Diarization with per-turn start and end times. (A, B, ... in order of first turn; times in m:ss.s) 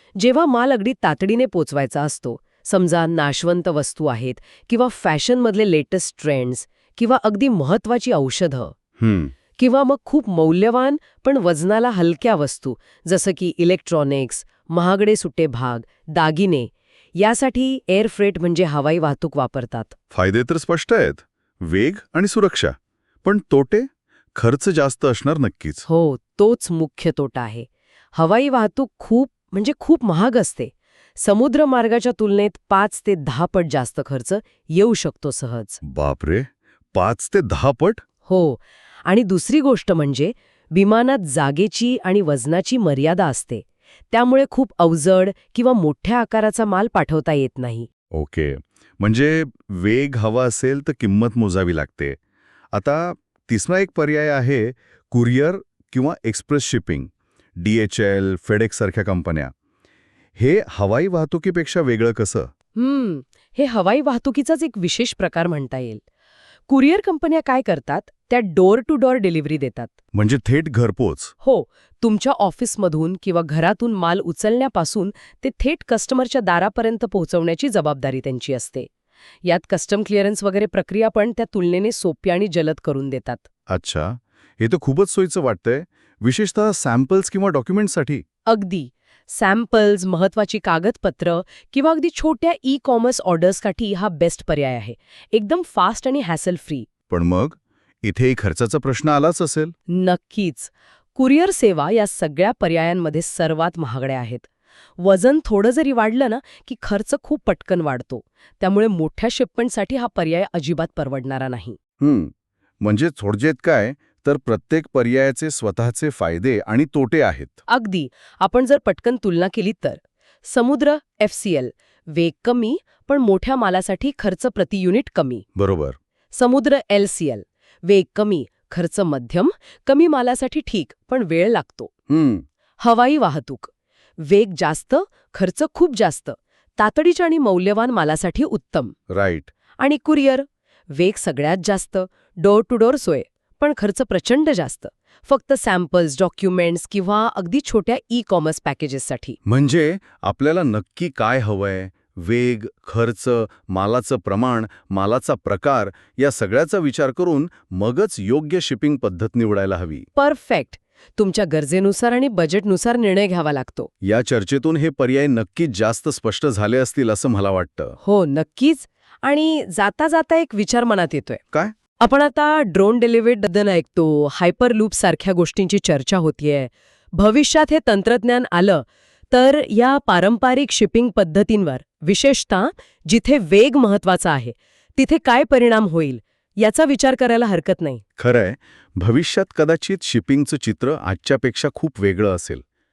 0:00.2-0:08.7 A
0:09.0-0:09.3 B
0:09.6-0:19.9 A
0:20.1-0:25.8 B
0:25.9-0:35.8 A
0:35.8-0:38.0 B
0:38.2-0:47.9 A
0:48.1-0:52.2 B
0:52.7-0:59.5 B
1:00.4-1:02.5 B
1:02.8-1:06.0 A
1:06.7-1:09.9 A
1:10.1-1:11.3 B
1:11.4-1:18.9 A
1:19.4-1:23.4 A
1:23.7-1:28.2 B
1:28.5-1:36.9 A
1:37.1-1:39.7 B
1:39.9-1:44.5 A
1:45.0-1:51.8 A
1:52.0-1:57.6 B
1:57.7-2:05.4 A
2:05.6-2:06.0 B
2:06.3-2:11.9 A
2:12.1-2:12.4 B
2:12.8-2:19.0 A
2:19.1-2:19.5 B
2:19.8-2:29.4 A
2:29.4-2:40.1 B
2:40.2-2:43.9 A
2:44.0-2:48.0 B
2:48.0-2:51.4 A
2:52.0-3:08.0 A
3:08.2-3:12.6 B